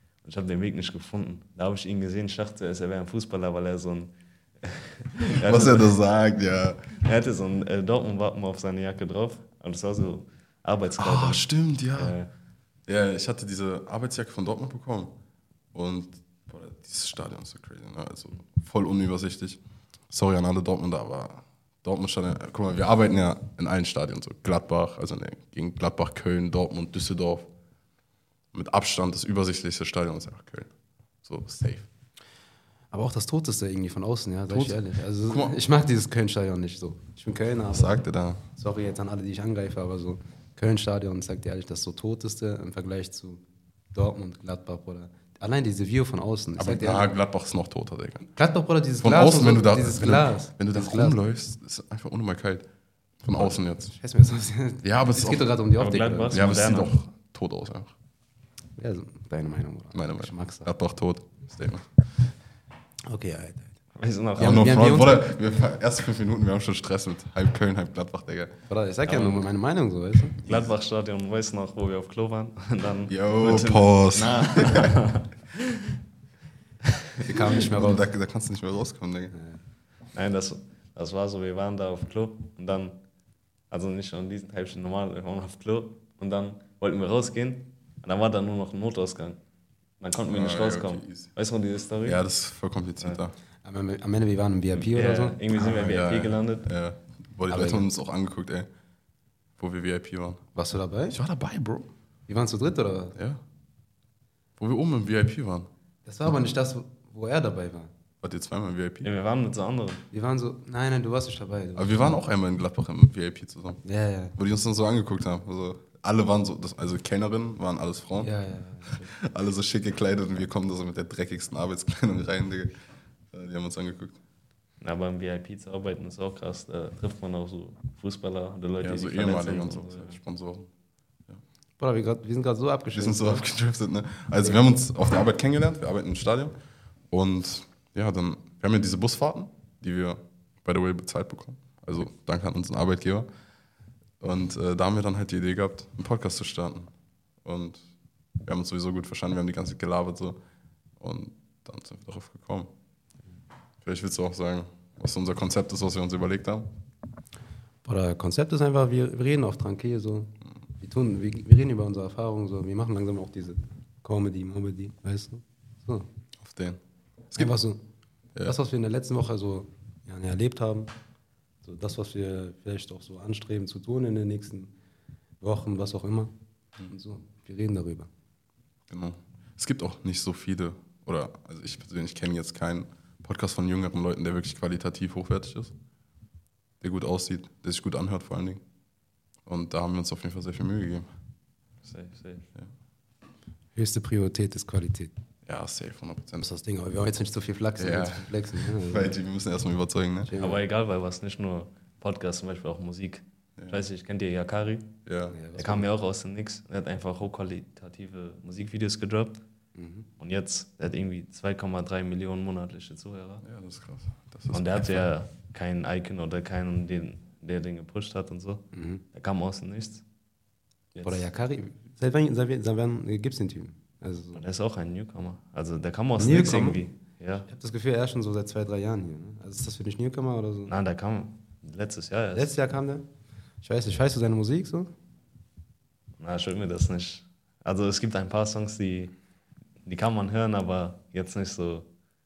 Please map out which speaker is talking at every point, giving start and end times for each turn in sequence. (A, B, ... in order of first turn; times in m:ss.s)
0:00.2-0:06.0 A
0:05.2-0:07.0 B
0:07.0-0:12.3 A
0:11.0-0:12.2 B
0:12.9-0:15.1 B
0:15.7-0:27.5 B
0:28.5-0:30.7 B
0:31.2-0:31.9 B
0:32.9-0:43.4 C
0:34.5-0:35.5 B
0:37.7-0:38.5 B
0:43.9-0:47.1 C
0:46.6-0:48.3 B
0:48.3-0:51.2 C
0:49.0-0:52.6 B
0:53.2-0:53.9 B
0:53.3-0:56.5 C
0:54.8-0:55.6 B
0:55.8-0:57.0 A
0:56.2-0:57.9 B
0:58.8-1:00.7 C
0:59.9-1:01.9 B
1:03.1-1:03.8 C
1:04.0-1:04.8 A
1:04.4-1:05.4 C
1:04.4-1:08.5 B
1:08.7-1:10.4 C
1:09.0-1:09.5 A
1:10.4-1:16.0 A
1:13.1-1:15.0 B
1:17.2-1:18.0 C
1:17.4-1:19.3 B
1:19.3-1:19.6 C
1:20.1-1:23.0 A
1:23.7-1:29.4 A
1:30.0-1:32.2 A
1:30.2-1:31.3 B
1:32.0-1:33.3 B
1:33.6-1:35.6 C
1:34.7-1:36.7 A
1:35.6-1:38.7 B
1:37.5-1:37.9 C
1:39.6-1:40.4 B
1:40.6-1:41.2 C
1:41.1-1:41.9 B
1:42.3-1:43.2 C
1:43.1-1:43.4 B
1:44.6-1:45.7 B
1:46.0-1:47.9 C
1:48.2-1:49.1 B
1:49.0-1:50.0 A
1:50.1-1:52.1 C
1:51.7-1:53.8 B
1:53.8-1:54.3 C
1:54.3-2:02.7 B
1:58.2-1:59.1 C
2:03.3-2:04.2 B
2:04.8-2:10.2 A
2:08.8-2:10.7 B
2:11.8-2:13.4 C
2:12.9-2:16.5 B
2:17.1-2:23.3 B
2:24.2-2:26.9 B
2:27.4-2:27.8 B
2:28.4-2:30.4 B
2:31.0-2:32.7 B
2:33.8-2:36.7 B
2:37.8-2:46.1 C
2:46.4-2:46.8 B
2:47.4-2:47.8 C
2:48.4-2:50.9 C
2:51.6-2:54.7 C
2:55.4-2:56.3 C
2:56.9-2:58.1 C
2:58.9-3:05.7 B
3:06.8-3:08.6 B
3:09.4-3:11.1 B
3:11.8-3:12.5 A
3:13.7-3:15.1 C
3:15.4-3:16.5 B
3:16.4-3:19.2 C
3:17.8-3:20.4 B
3:20.2-3:20.6 C
3:20.4-3:24.9 A
3:23.6-3:23.8 B
3:25.0-3:25.4 B
3:25.3-3:25.9 C
3:25.5-3:29.4 A
3:29.8-3:30.1 C
3:30.2-3:33.4 A
3:33.4-3:35.1 B
3:34.5-3:38.6 A
3:38.7-3:39.0 C
3:39.1-3:40.0 A
3:40.9-3:41.3 A
3:41.0-3:44.4 C
3:44.3-3:47.5 A
3:46.2-3:46.8 C
3:47.5-3:50.7 C
3:50.7-3:52.6 A
3:52.3-3:53.0 C
3:53.6-3:54.9 C
3:56.2-3:59.1 A
3:59.8-4:01.9 A